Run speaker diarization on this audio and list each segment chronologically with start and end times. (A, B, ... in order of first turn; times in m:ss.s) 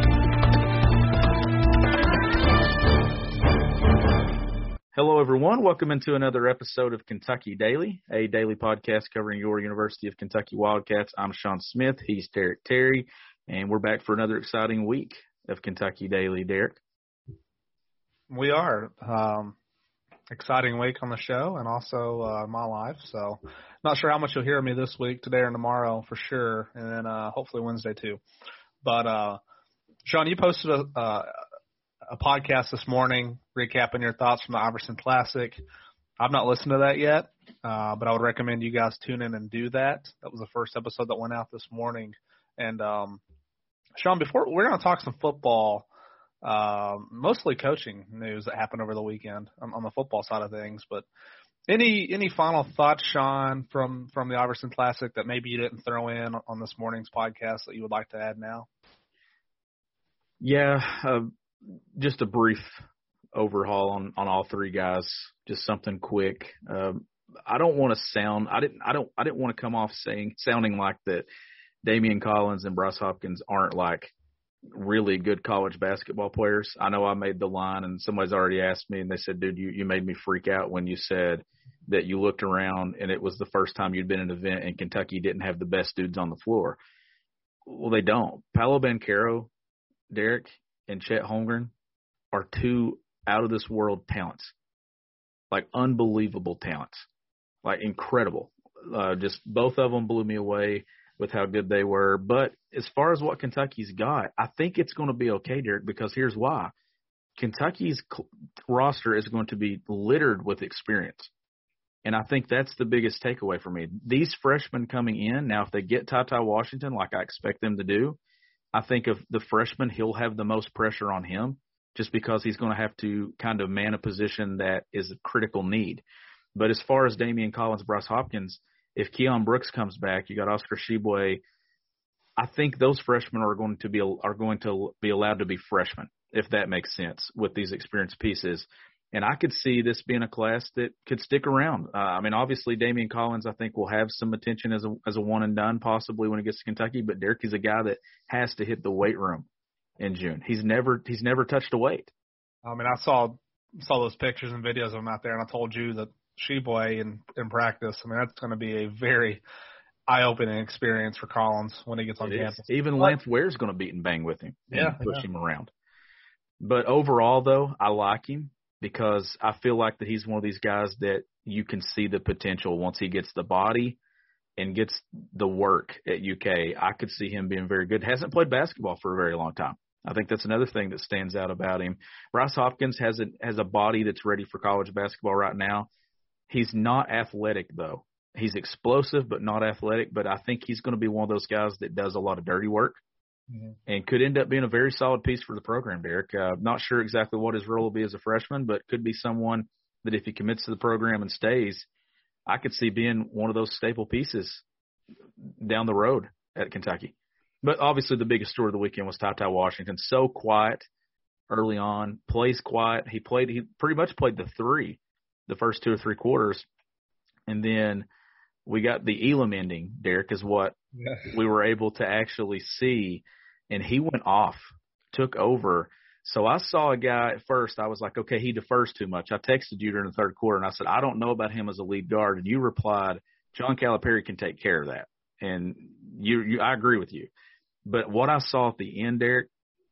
0:04.9-0:16.8 A
0:18.3-0:19.6 B
0:20.3-0:28.2 B
0:28.8-0:29.4 B
0:30.0-0:31.4 B
0:32.1-0:35.6 B
0:36.2-0:43.2 B
0:44.0-0:45.9 B
0:46.4-0:51.1 B
0:51.7-0:58.7 B
1:00.4-1:11.3 A
1:11.8-1:14.1 A
1:14.7-1:26.8 A
1:27.7-1:29.5 A
1:30.1-1:31.7 A
1:32.3-1:34.5 A
1:35.5-1:37.1 A
1:37.6-1:46.7 A
1:47.4-1:51.3 A
1:52.0-1:58.2 A
1:58.7-2:11.4 A
2:12.4-2:29.5 A
2:30.0-2:32.1 A
2:32.6-2:39.4 B
2:40.1-2:43.2 B
2:42.2-2:45.7 A
2:44.7-2:45.2 B
2:46.6-2:54.0 A
2:54.6-3:05.9 A
3:06.5-3:13.0 A
3:13.9-3:21.9 A
3:22.5-3:24.6 A
3:25.6-3:30.8 A
3:31.5-3:36.7 A
3:37.5-3:38.1 A
3:38.7-3:40.8 A
3:41.0-3:41.3 B
3:41.3-3:57.3 A
3:57.9-3:59.5 A